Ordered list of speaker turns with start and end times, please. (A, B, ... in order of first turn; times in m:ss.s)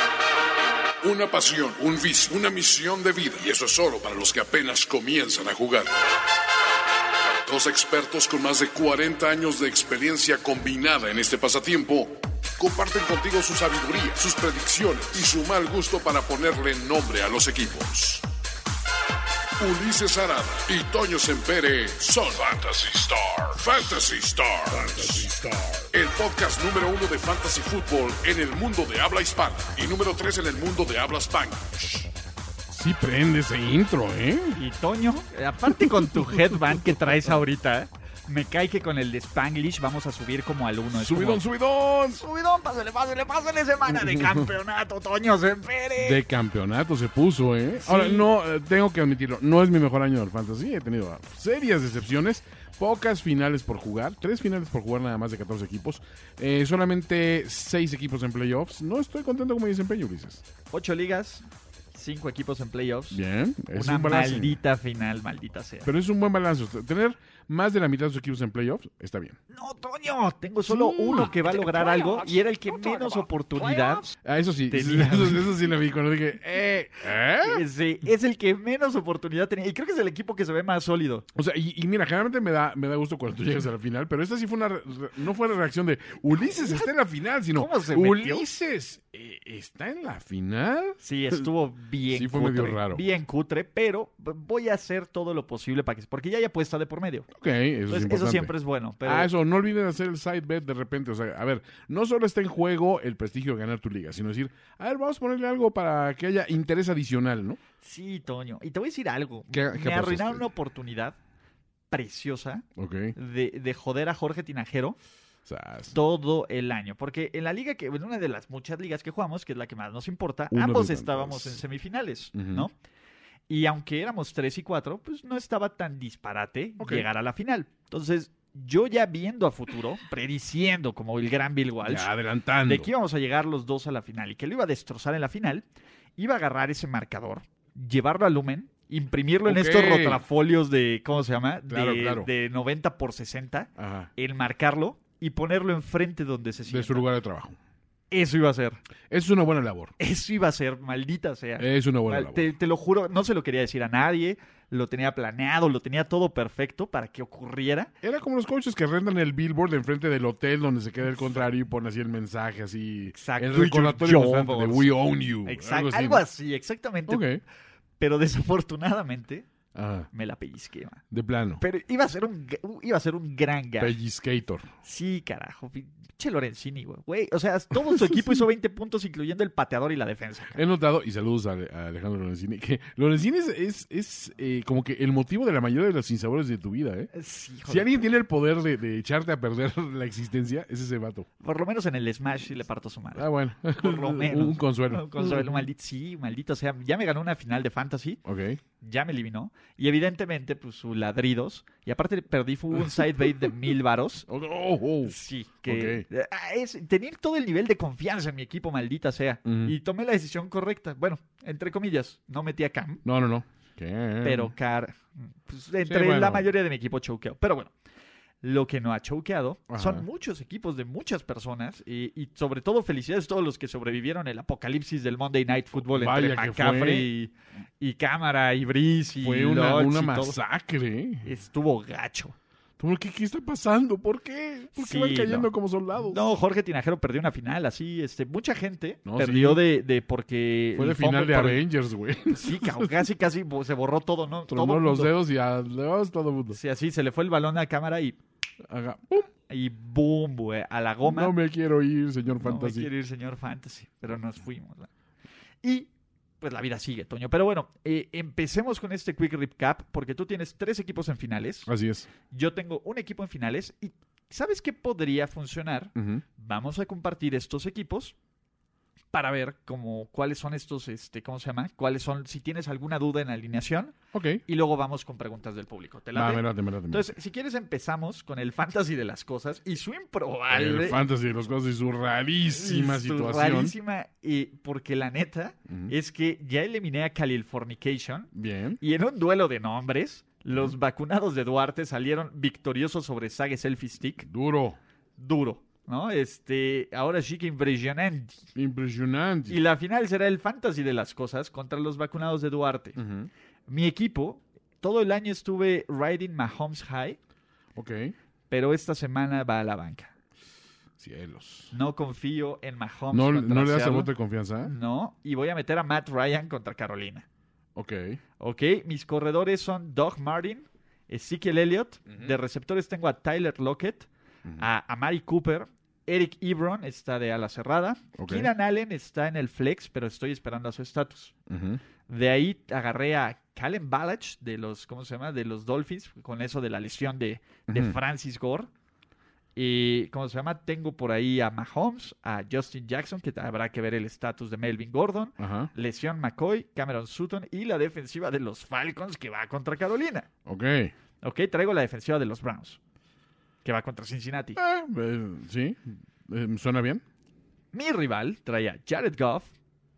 0:01.0-0:06.1 A
0:07.4-0:18.2 A
0:19.6-0:32.1 A
0:32.7-0:34.6 B
0:34.6-0:41.4 C
0:35.7-0:36.9 B
0:40.9-0:42.2 B
0:42.1-0:46.2 C
0:43.9-0:44.5 B
0:46.0-1:00.4 B
0:47.8-0:48.3 C
1:00.7-1:03.2 C
1:03.1-1:04.6 B
1:03.7-1:05.9 C
1:05.8-1:09.4 B
1:09.5-1:14.1 C
1:10.6-1:12.1 B
1:14.1-1:17.6 B
1:14.7-1:15.5 C
1:17.4-1:21.2 C
1:21.3-1:31.5 B
1:27.5-1:28.4 C
1:31.0-1:37.3 C
1:32.1-1:33.0 B
1:37.3-1:38.5 B
1:37.9-1:39.3 C
1:39.0-1:47.6 B
1:47.8-1:51.2 C
1:49.5-1:50.5 B
1:51.9-1:55.0 C
1:52.8-1:53.1 B
1:55.4-1:56.0 B
1:55.9-2:02.7 C
2:00.5-2:01.6 B
2:02.3-2:02.7 B
2:03.5-2:12.1 C
2:06.8-2:07.1 B
2:11.8-2:12.9 B
2:12.6-2:15.6 C
2:16.2-2:27.1 C
2:19.4-2:20.2 B
2:21.7-2:22.3 B
2:23.8-2:24.1 B
2:26.7-2:27.6 B
2:28.1-2:28.8 C
2:29.1-2:29.9 B
2:30.0-2:37.9 C
2:31.6-2:32.5 B
2:38.0-2:46.2 B
2:41.1-2:41.5 C
2:43.1-2:44.9 C
2:45.4-2:47.2 C
2:47.1-2:47.4 B
2:48.0-2:49.4 C
2:49.7-2:50.1 B
2:50.1-2:51.0 C
2:51.1-2:51.6 B
2:51.6-2:54.0 C
2:53.8-2:54.7 B
2:54.8-3:00.6 C
3:00.5-3:07.1 B
3:07.1-3:08.0 C
3:07.7-3:11.3 B
3:11.4-3:18.2 C
3:13.1-3:15.7 B
3:18.2-3:18.6 B
3:18.8-3:24.2 C
3:24.3-3:26.1 B
3:25.0-3:33.0 C
3:29.4-3:29.8 B
3:33.0-3:34.5 B
3:34.2-3:37.7 C
3:35.8-3:36.5 B
3:38.4-3:50.4 C
3:39.7-3:40.1 B
3:45.8-3:47.1 B
3:49.2-3:51.3 B
3:51.2-3:52.4 C
3:52.8-3:56.2 B
3:54.8-4:01.6 C
3:59.0-3:59.6 B
4:00.8-4:03.0 B
4:02.3-4:05.1 C
4:04.5-4:06.6 B
4:06.5-4:08.2 C
4:08.6-4:09.3 B
4:09.5-4:11.4 C
4:11.0-4:12.9 B
4:12.4-4:14.9 C
4:15.6-4:15.9 C
4:16.4-4:21.7 C
4:21.6-4:22.1 B
4:22.3-4:28.1 C
4:25.9-4:26.2 B
4:29.1-4:33.9 C
4:34.1-4:34.4 B
4:34.4-4:41.0 C
4:36.1-4:37.1 B
4:40.5-4:43.8 B
4:42.5-4:54.2 C
4:45.7-4:45.9 B
4:48.3-4:48.8 B
4:54.2-4:54.8 B
4:55.2-4:58.4 C
4:58.5-4:59.6 B
4:59.5-5:03.0 C
5:03.0-5:03.3 B
5:03.7-5:07.2 C
5:07.7-5:08.1 B
5:08.5-5:10.1 C
5:11.0-5:11.7 B
5:11.7-5:14.1 C
5:13.1-5:14.7 B
5:14.6-5:17.2 C
5:17.8-5:18.2 B
5:18.4-5:24.1 C
5:24.6-5:31.3 C
5:28.2-5:28.5 B
5:31.5-5:31.8 B
5:32.1-5:38.7 C
5:37.7-5:38.0 B
5:39.6-5:50.3 C
5:45.4-5:45.7 B
5:50.4-5:50.9 B
5:51.2-5:52.8 C
5:53.6-5:54.6 C
5:54.6-5:57.0 B
5:57.7-5:59.5 C